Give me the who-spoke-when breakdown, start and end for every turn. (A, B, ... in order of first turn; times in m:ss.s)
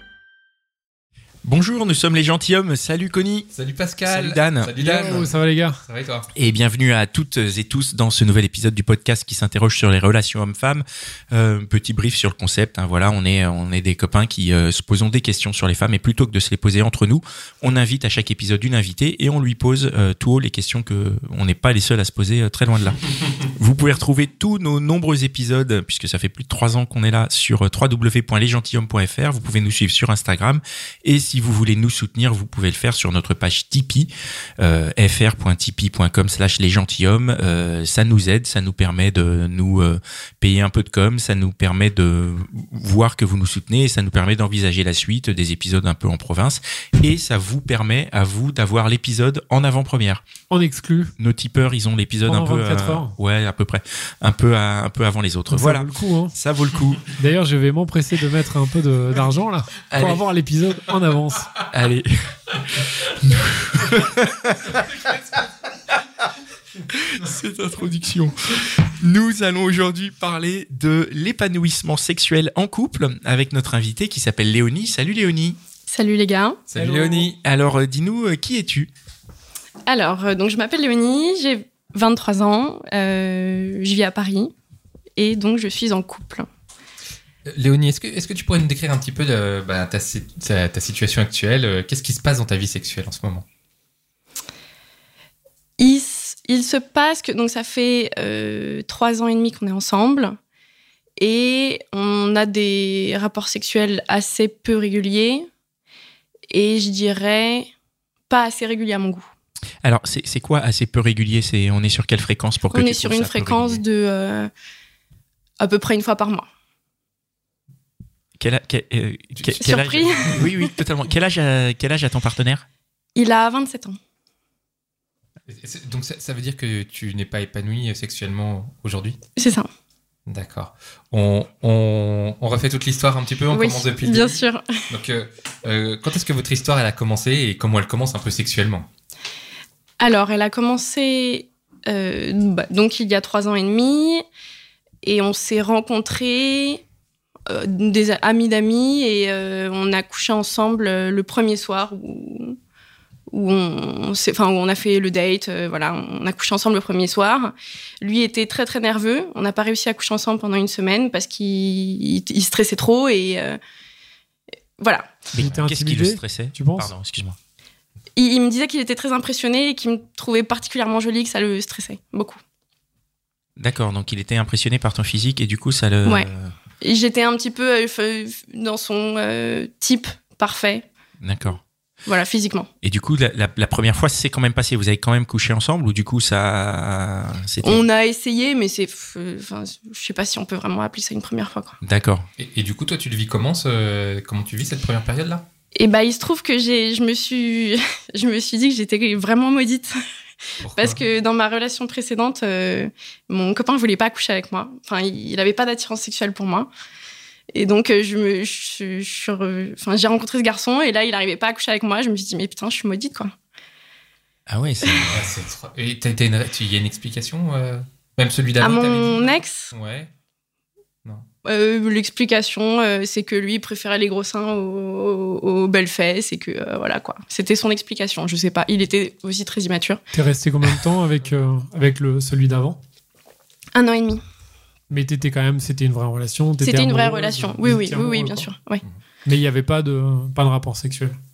0:01.4-0:03.5 A
0:03.5-0:05.3 B
0:04.1-0:05.2 A
0:04.8-0:05.8 C
0:05.9-0:06.3 B
0:06.4-0:50.2 A
0:50.5-0:51.1 C
0:51.2-0:57.1 A
0:52.2-0:53.2 C
0:55.5-0:56.4 C
0:57.2-1:01.5 C
0:59.9-1:00.2 A
1:01.7-1:04.8 A
1:06.9-1:15.6 A
1:15.9-1:16.6 D
1:16.7-1:17.4 B
1:16.7-1:17.3 C
1:17.4-1:18.9 A
1:19.9-1:24.5 D
1:25.2-1:26.5 D
1:27.5-1:33.4 B
1:35.8-1:40.4 D
1:41.2-1:45.5 D
1:46.5-1:47.7 D
1:48.3-1:49.3 D
1:49.8-1:53.8 A
1:52.7-1:54.5 D
1:55.6-1:56.5 D
1:58.4-2:02.6 A
1:59.6-2:00.7 D
2:03.2-2:04.0 D
2:05.5-2:09.2 B
2:09.4-2:09.7 D
2:10.3-2:18.9 B
2:13.5-2:14.8 D
2:20.0-2:24.2 D
2:25.0-2:26.8 D
2:27.5-2:32.6 D
2:33.3-2:43.6 D
2:44.8-2:45.1 D
2:45.3-2:47.4 A
2:45.3-2:46.9 C
2:48.2-2:52.4 D
2:53.6-2:56.5 A
2:56.8-3:00.9 D
3:01.2-3:01.6 A
3:02.1-3:02.7 D
3:02.8-3:07.9 A
3:07.6-3:11.8 D
3:11.8-3:12.3 A
3:12.4-3:15.5 B
3:15.8-3:20.0 D
3:20.6-3:26.7 D
3:20.6-3:21.0 B
3:27.6-3:33.3 D
3:34.5-3:35.2 A
3:35.0-3:40.1 B
3:38.6-3:39.7 D
3:41.4-3:50.0 D
3:50.1-3:52.8 C
3:53.8-3:54.2 D
3:54.9-3:58.5 C
3:56.6-3:58.8 D
3:59.2-4:01.2 C